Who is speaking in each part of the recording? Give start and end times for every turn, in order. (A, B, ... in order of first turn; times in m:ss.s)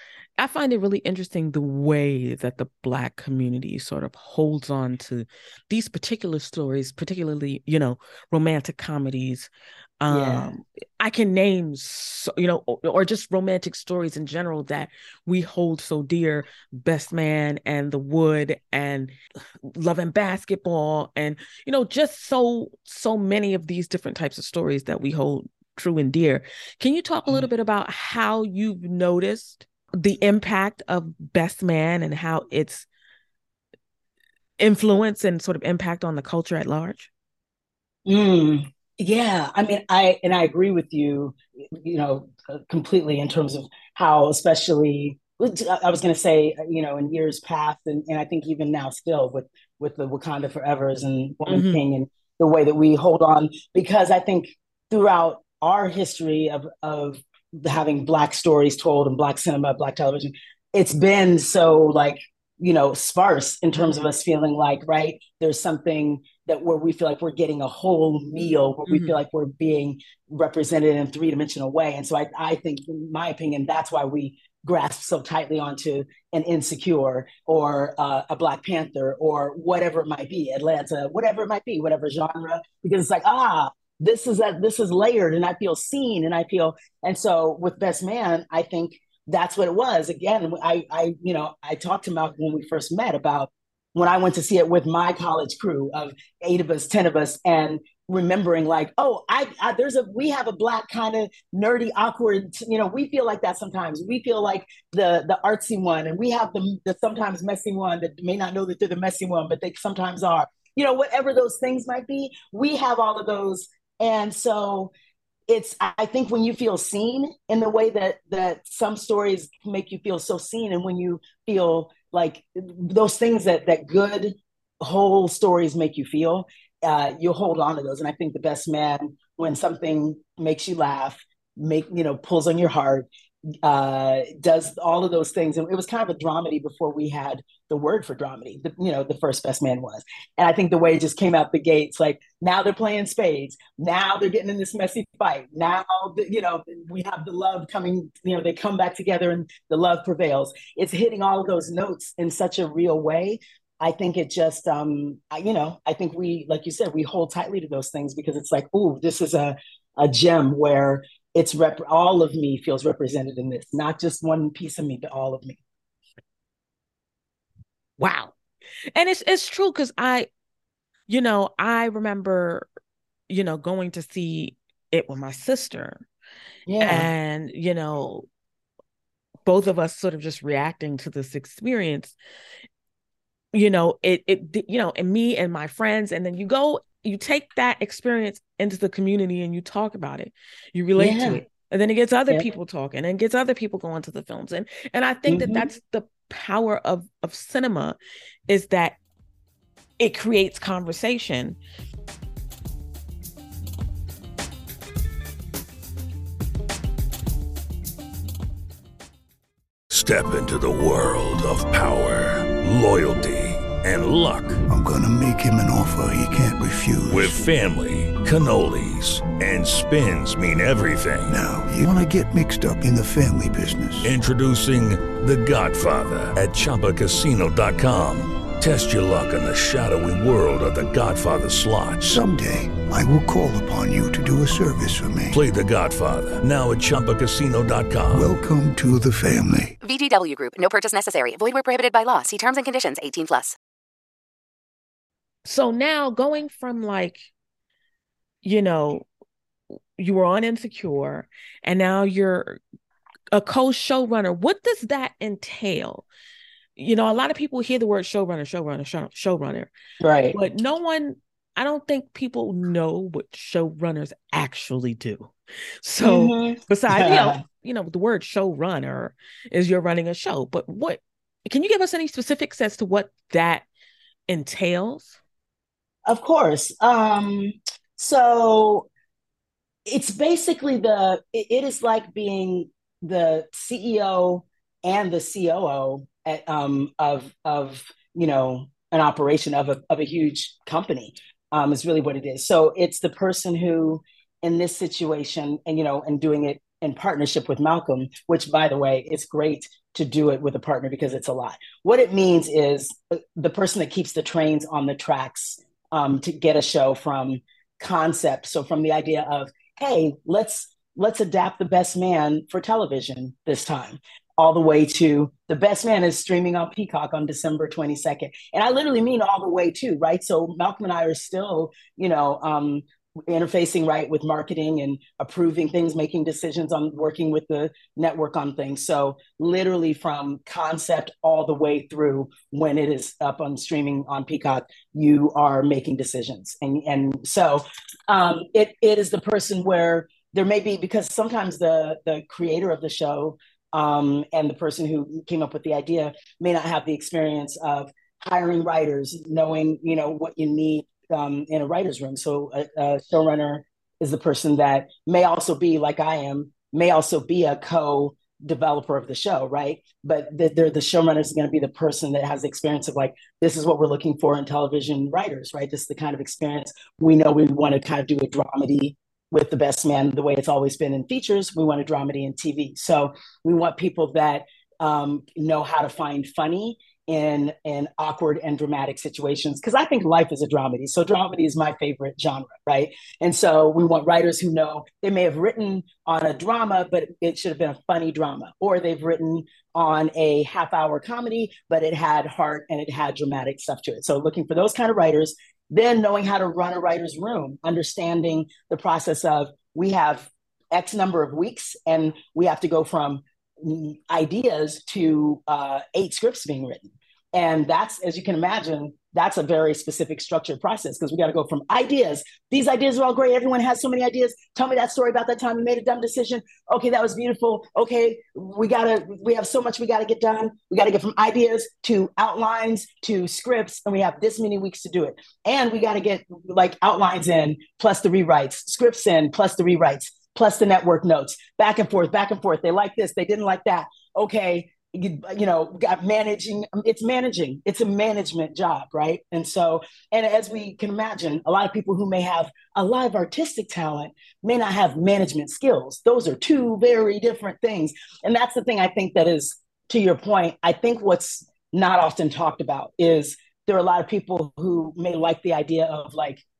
0:00.4-0:09.5 A
0:10.0-0:19.1 A
0:10.1-0:10.5 B
0:19.7-0:32.8 A
0:34.6-0:37.1 A
0:38.0-1:54.9 B
0:51.5-0:51.8 A
1:08.9-1:09.2 A
1:55.5-2:13.1 B
2:13.6-2:45.6 B
2:48.0-2:48.3 A
2:48.9-2:50.3 A
2:51.1-2:52.7 A
2:53.3-2:56.0 A
2:56.6-2:57.1 B
2:56.8-2:58.3 A
2:59.4-3:02.1 A
3:03.5-3:18.0 A
3:11.0-3:11.4 B
3:15.3-3:15.7 B
3:18.5-3:19.0 A
3:20.0-3:21.6 A
3:29.9-3:34.6 C
3:34.7-3:37.4 D
3:37.1-3:41.4 C
3:41.3-3:44.1 D
3:44.0-3:52.2 C
3:52.0-3:55.4 D
3:55.3-3:58.3 C
3:58.1-3:59.7 D
3:59.8-4:03.5 E
4:05.4-4:07.3 A
4:08.4-4:09.1 A
4:10.0-4:12.6 A
4:13.3-4:16.1 A
4:16.8-4:19.7 A
4:20.0-4:20.4 B
4:20.3-4:33.6 A
4:26.0-4:27.4 B
4:34.3-4:35.2 A
4:36.1-4:38.9 B
4:39.9-7:36.4 B